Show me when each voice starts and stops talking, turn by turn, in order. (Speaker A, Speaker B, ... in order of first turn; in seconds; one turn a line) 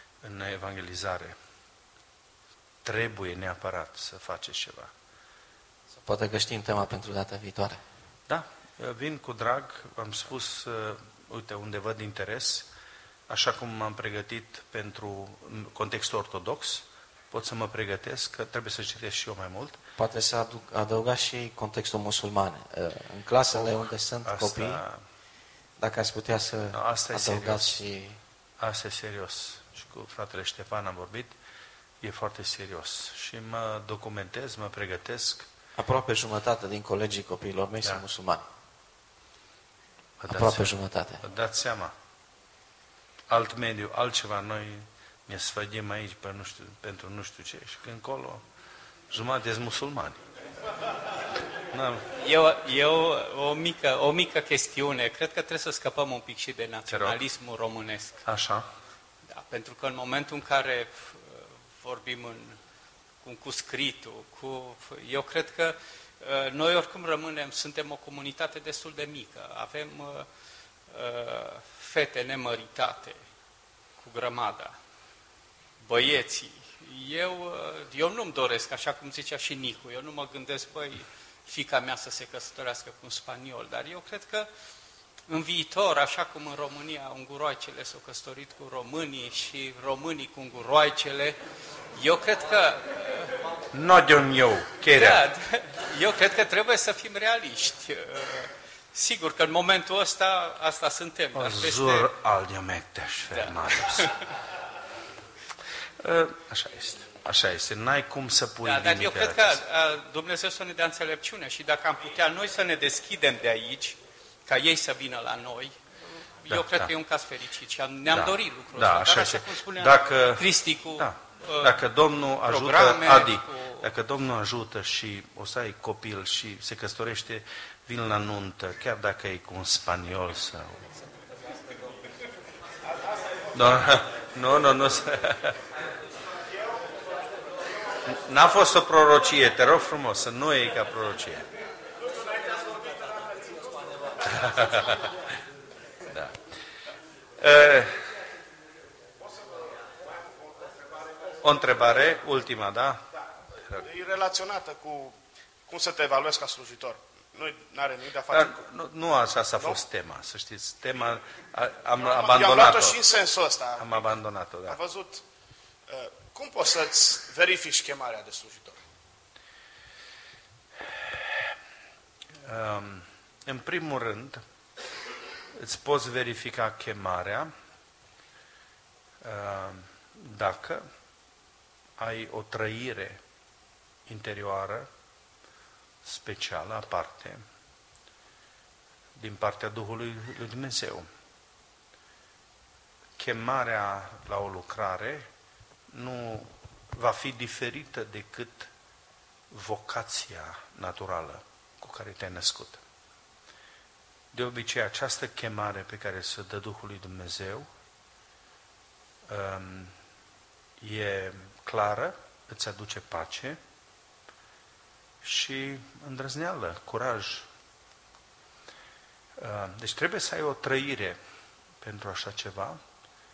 Speaker A: 0.2-1.4
Speaker A: 2.8-4.9
Speaker B: 6.0-7.8
Speaker A: 8.3-12.7
Speaker A: 13.3-19.8
Speaker B: 20.0-24.8
Speaker A: 23.5-25.0
Speaker B: 25.8-28.2
Speaker A: 26.7-27.8
Speaker A: 28.6-31.4
Speaker A: 32.0-35.5
Speaker B: 35.8-38.5
Speaker A: 40.2-41.9
Speaker B: 40.3-41.2
Speaker A: 43.3-48.4
Speaker A: 49.1-50.2
Speaker A: 51.7-52.0
Speaker C: 52.1-58.2
Speaker A: 56.9-57.2
Speaker A: 58.2-58.6
Speaker C: 59.3-62.6
Speaker C: 63.2-70.3
Speaker C: 70.9-73.2
Speaker C: 74.0-74.8
Speaker C: 75.8-84.5
Speaker C: 85.3-91.4
Speaker C: 91.9-93.4
Speaker A: 93.7-95.2
Speaker C: 94.9-102.1
Speaker A: 101.3-104.1
Speaker C: 103.3-104.2
Speaker A: 106.0-109.6
Speaker C: 108.6-115.8
Speaker C: 116.4-121.8
Speaker A: 116.5-116.9
Speaker A: 118.1-130.8
Speaker C: 122.5-123.9
Speaker A: 133.5-135.6
Speaker A: 138.1-141.5
Speaker D: 142.1-144.9
Speaker A: 144.3-145.1
Speaker A: 146.1-146.3
Speaker A: 147.4-148.0
Speaker D: 149.2-151.3
Speaker A: 151.4-153.0
Speaker D: 153.8-155.2
Speaker D: 155.7-158.6
Speaker A: 158.3-163.0
Speaker D: 161.9-164.1
Speaker A: 163.8-164.8
Speaker D: 164.7-165.2
Speaker D: 165.9-168.8
Speaker A: 172.4-174.4
Speaker A: 175.6-177.5
Speaker A: 179.2-180.8
Speaker A: 182.0-183.2
Speaker A: 184.1-184.9
Speaker A: 186.0-187.4
Speaker A: 189.2-191.1
Speaker A: 193.2-195.3
Speaker A: 195.9-198.7
Speaker A: 199.5-202.8
Speaker A: 204.3-207.7
Speaker A: 209.3-210.0
Speaker A: 210.8-213.6
Speaker A: 215.2-217.5
Speaker A: 219.4-221.2
Speaker A: 221.8-222.8